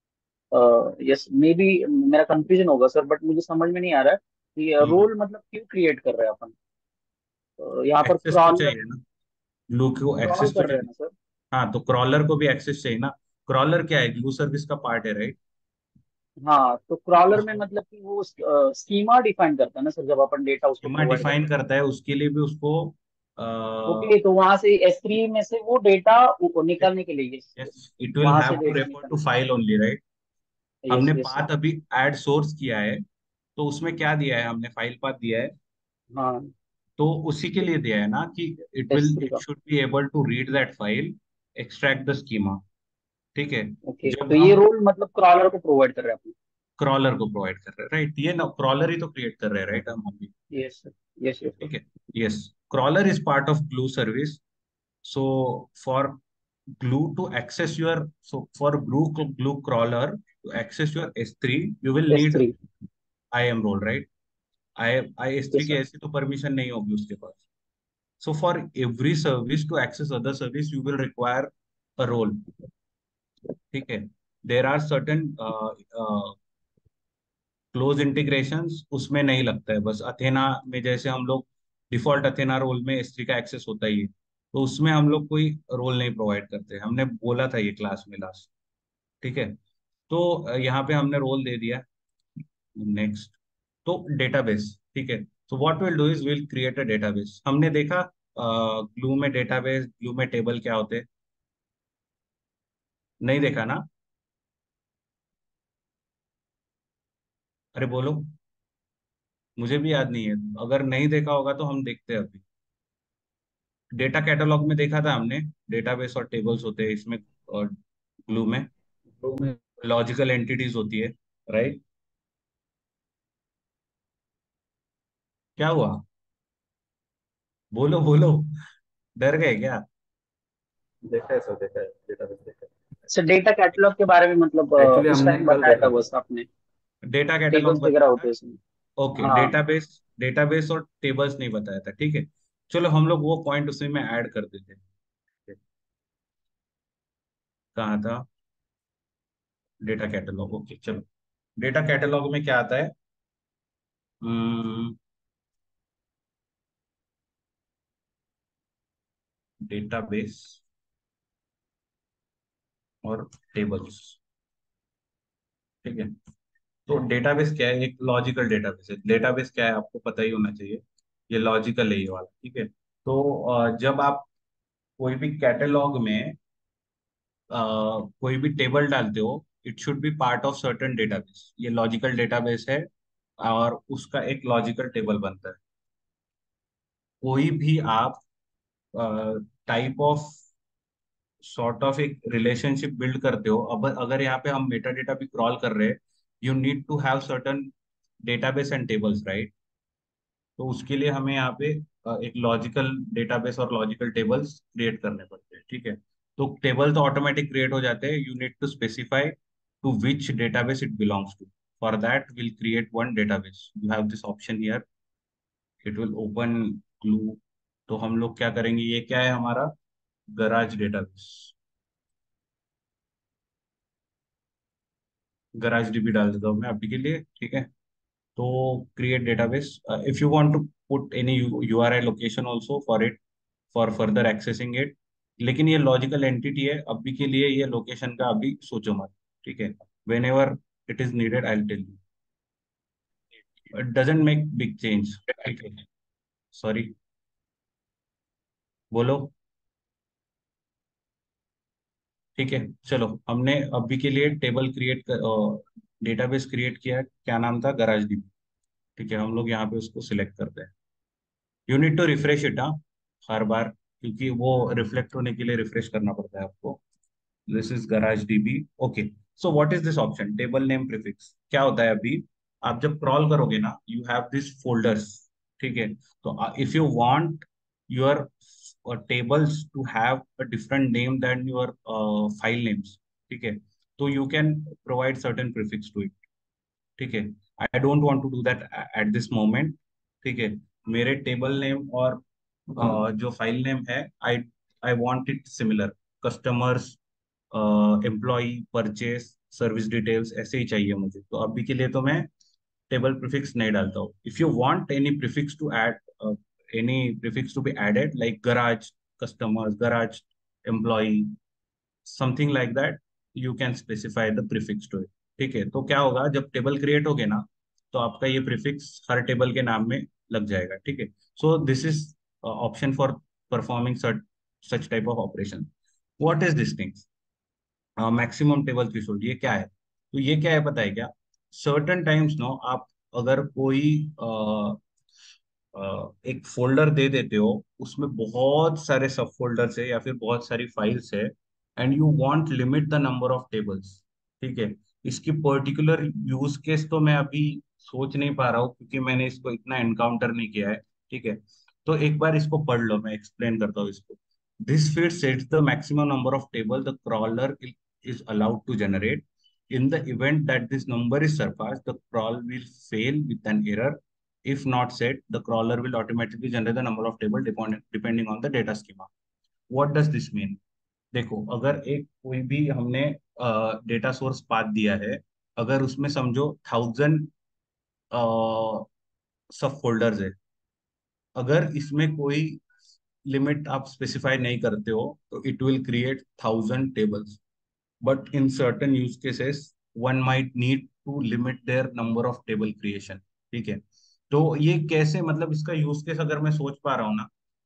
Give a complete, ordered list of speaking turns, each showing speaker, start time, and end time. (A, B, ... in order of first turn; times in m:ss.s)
0:00.5-0:06.5 A
0:07.6-0:08.7 A
0:08.0-0:09.0 B
0:09.7-0:10.9 B
0:10.2-0:11.1 A
0:11.5-0:15.4 B
0:16.4-0:21.4 A
0:20.8-0:24.2 B
0:23.9-0:27.7 A
0:27.6-0:30.0 B
0:28.2-0:29.2 A
0:30.8-0:31.4 A
0:30.9-0:33.0 B
0:33.6-0:35.5 B
0:36.2-0:36.5 A
0:37.0-0:42.6 B
0:38.9-0:39.4 A
0:43.4-0:44.6 B
0:43.9-0:46.4 A
0:46.8-0:50.3 B
0:50.5-0:51.7 A
0:51.6-0:54.4 B
0:55.0-0:56.2 B
0:56.8-1:02.5 B
1:02.1-1:02.6 A
1:03.3-1:04.1 B
1:04.8-1:07.4 B
1:05.5-1:05.8 A
1:08.2-1:12.5 B
1:13.7-1:16.4 B
1:17.7-1:28.5 B
1:29.2-1:29.6 B
1:30.1-1:31.8 B
1:32.8-1:41.1 B
1:43.2-1:43.8 B
1:47.8-1:48.4 B
1:49.6-1:52.4 B
1:54.0-1:57.7 B
1:58.3-1:58.7 B
1:59.2-2:01.8 B
2:05.6-2:06.0 B
2:07.7-2:08.5 B
2:09.2-2:09.8 B
2:11.0-2:12.7 C
2:13.1-2:16.5 A
2:14.8-2:15.9 C
2:17.0-2:18.3 B
2:17.5-2:18.6 A
2:19.0-2:24.8 B
2:19.2-2:19.6 A
2:27.8-2:28.3 B
2:29.8-2:31.0 B
2:31.6-2:32.9 B
2:34.2-2:35.0 B
2:39.6-2:40.6 B
2:43.0-2:44.2 B
2:45.8-2:46.1 B
2:46.9-2:54.3 B
2:55.0-2:56.4 B
2:57.5-3:02.9 B
3:03.4-3:05.6 B
3:07.2-3:08.2 B
3:09.0-3:10.4 B
3:11.4-3:17.7 B
3:18.2-3:19.5 B
3:20.6-3:34.8 B
3:35.8-3:39.7 B
3:40.3-3:41.5 B
3:45.6-3:47.7 B
3:48.4-3:53.2 B
3:53.7-4:02.0 B
4:03.7-4:05.8 B
4:06.5-4:07.0 B
4:08.9-4:09.3 B
4:12.4-4:18.3 B
4:19.0-4:20.7 B
4:21.7-4:26.8 B
4:27.5-4:46.1 B
4:47.0-4:52.2 B
4:52.8-4:57.0 B
4:57.5-5:02.3 B
5:02.9-5:11.4 B
5:12.0-5:27.1 B
5:28.0-5:34.8 B
5:35.8-6:09.1 B
6:09.7-6:10.6 B
6:11.1-6:17.3 B
6:18.1-6:18.9 B
6:19.5-6:20.4 B
6:21.4-6:22.6 B
6:23.3-6:27.4 B
6:28.0-6:37.3 B